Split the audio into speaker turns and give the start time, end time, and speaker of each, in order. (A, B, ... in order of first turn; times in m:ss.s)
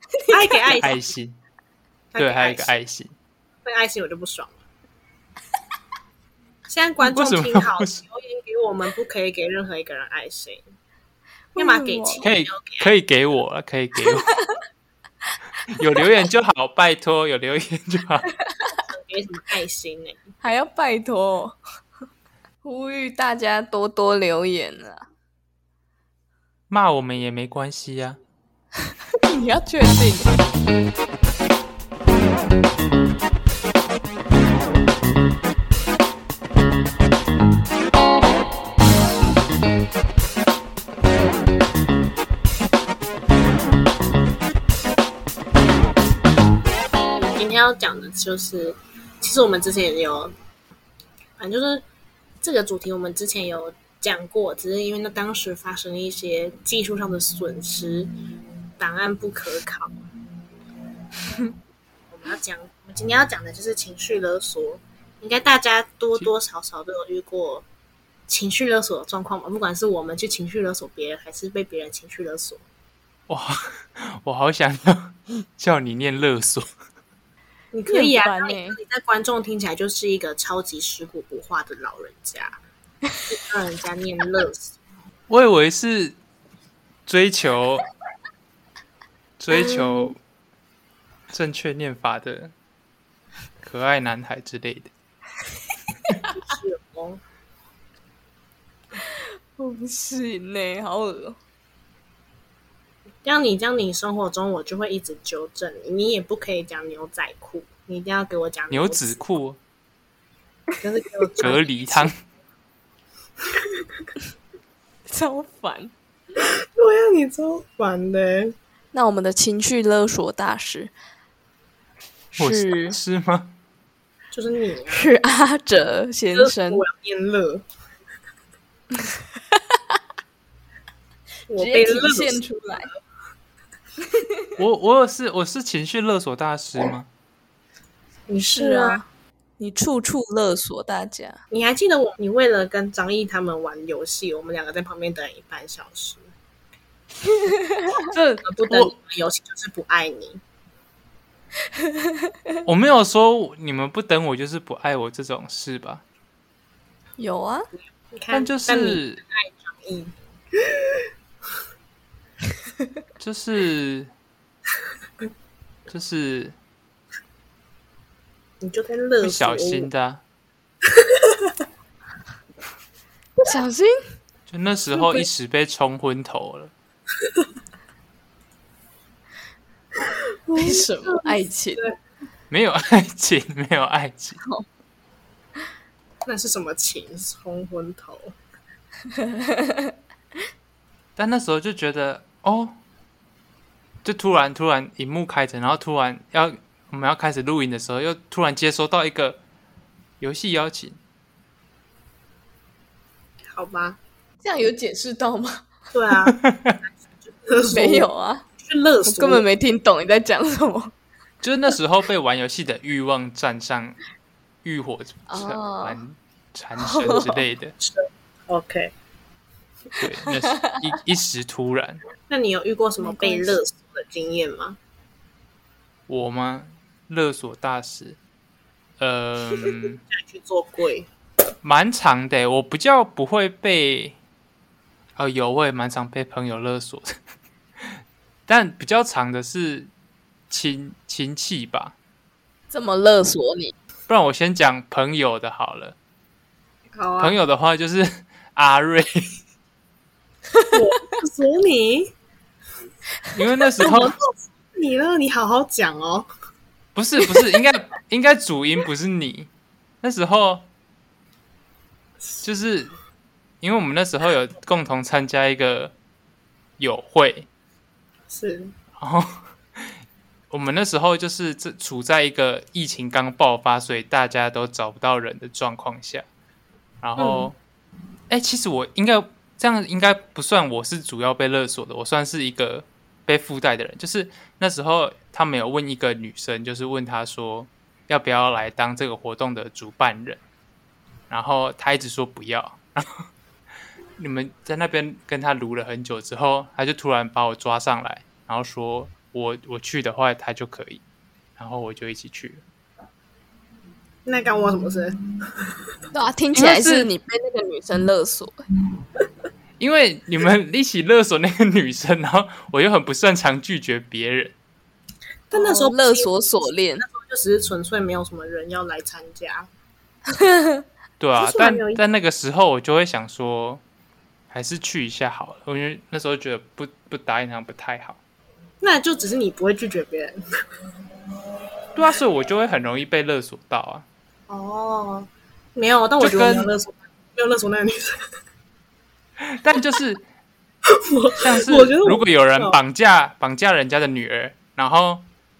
0:00.2-0:00.8 A
0:00.3-0:01.1 B
0:00.8-0:01.4 C
0:02.1-0:02.7 B
0:02.2-0:03.2 C
0:03.6-0:04.6 B
0:06.7-0:10.6 B
0:07.0-0:08.0 C
0:11.6-0:12.2 A
0:11.6-0:12.9 B
0:12.2-0:14.3 C
0:15.7-0:18.3 C
0:18.5-0:18.8 A
0:18.9-0:20.3 B
0:20.4-0:21.6 A
0:22.6-0:25.1 A
0:26.7-0:28.2 C
0:29.2-0:30.4 A
0:47.4-0:50.3 B
0:51.4-0:51.8 B
0:52.4-0:58.1 B
0:58.8-1:00.0 B
1:02.1-1:07.6 B
1:08.3-1:12.6 B
1:13.3-1:16.7 C
1:17.7-1:22.6 B
1:17.9-1:18.8 A
1:23.3-1:24.8 B
1:25.3-1:26.2 C
1:27.1-1:27.9 C
1:29.4-1:30.2 C
1:29.5-1:30.1 A
1:31.3-1:32.5 C
1:33.6-1:34.9 C
1:36.3-1:37.2 B
1:39.0-1:41.4 A
1:43.2-1:49.2 B
1:48.7-1:49.6 C
1:50.8-1:52.1 B
1:51.4-1:52.2 C
1:55.1-1:55.9 A
1:56.4-1:58.6 B
1:58.9-2:00.9 A
2:02.3-2:03.0 A
2:02.4-2:03.5 C
2:04.3-2:05.1 B
2:04.9-2:06.8 A
2:06.3-2:07.6 B
2:09.0-2:10.0 A
2:11.5-2:12.9 B
2:11.6-2:12.9 A
2:14.2-2:14.4 A
2:14.6-2:17.1 C
2:18.3-2:19.0 B
2:18.4-2:19.1 A
2:19.6-2:21.4 A
2:21.5-2:26.3 B
2:27.2-2:28.9 A
2:28.4-2:30.4 B
2:31.8-2:32.3 A
2:32.7-2:36.0 C
2:37.2-2:37.7 A
2:38.1-2:41.1 B
2:38.3-2:39.2 C
2:43.2-2:44.1 C
2:45.9-2:46.6 C
2:48.6-2:49.9 B
2:49.2-2:50.2 C
2:51.0-2:51.5 B
2:53.4-2:54.0 A
2:54.5-2:56.7 C
2:54.9-2:55.3 B
3:00.5-3:02.0 B
3:00.6-3:01.8 A
3:02.5-3:04.4 C
3:04.4-3:04.7 A
3:06.3-3:08.3 B
3:09.1-3:09.9 A
3:11.2-3:12.8 C
3:14.0-3:19.4 C
3:20.2-3:21.0 C
3:23.5-3:24.0 B
3:24.4-3:25.7 A
3:25.9-3:26.4 B
3:26.3-3:26.8 C
3:27.4-3:28.1 B
3:27.7-3:28.5 A
3:28.6-3:29.5 B
3:29.0-3:30.9 A
3:31.4-3:34.0 C
3:34.6-3:37.8 C
3:35.3-3:36.0 A
3:36.8-3:37.4 A
3:37.8-3:38.9 B
3:40.0-3:42.0 C
3:40.3-3:40.8 A
3:42.3-3:44.8 B
3:43.0-3:43.6 A
3:46.1-3:48.2 C
3:49.0-3:50.0 C
3:50.1-3:51.1 B
3:51.6-3:54.2 C
3:55.2-3:57.2 C
3:58.5-3:59.9 C
4:00.5-4:02.0 C
4:02.7-4:03.8 A
4:04.1-4:06.0 C
4:07.0-4:07.4 B
4:07.2-4:09.3 C
4:10.7-4:12.1 B
4:13.3-4:14.2 C
4:13.8-4:16.3 B
4:17.0-4:19.5 C
4:20.0-4:20.7 C
4:22.4-4:22.9 C
4:23.6-4:25.9 C
4:26.8-4:27.5 C
4:28.3-4:28.7 B
4:29.0-4:29.9 C
4:30.5-4:36.3 C
4:37.0-4:37.6 C
4:37.2-4:37.5 B
4:38.3-4:50.4 C
4:51.3-4:53.2 C
4:54.2-5:01.0 C
5:01.6-5:02.6 C
5:04.3-5:05.7 B
5:06.1-5:08.6 A
5:06.6-5:07.1 C
5:09.8-5:14.5 C
5:15.5-5:16.3 B
5:15.5-5:17.0 A
5:17.0-5:19.7 B
5:20.3-5:20.8 A
5:21.2-5:23.8 C
5:21.4-5:22.0 B
5:24.5-5:28.2 C
5:28.8-5:30.4 B
5:32.0-5:34.1 C
5:34.5-5:38.2 B
5:36.2-5:36.7 C
5:39.4-5:40.3 C
5:40.9-5:42.8 B
5:41.4-5:45.2 C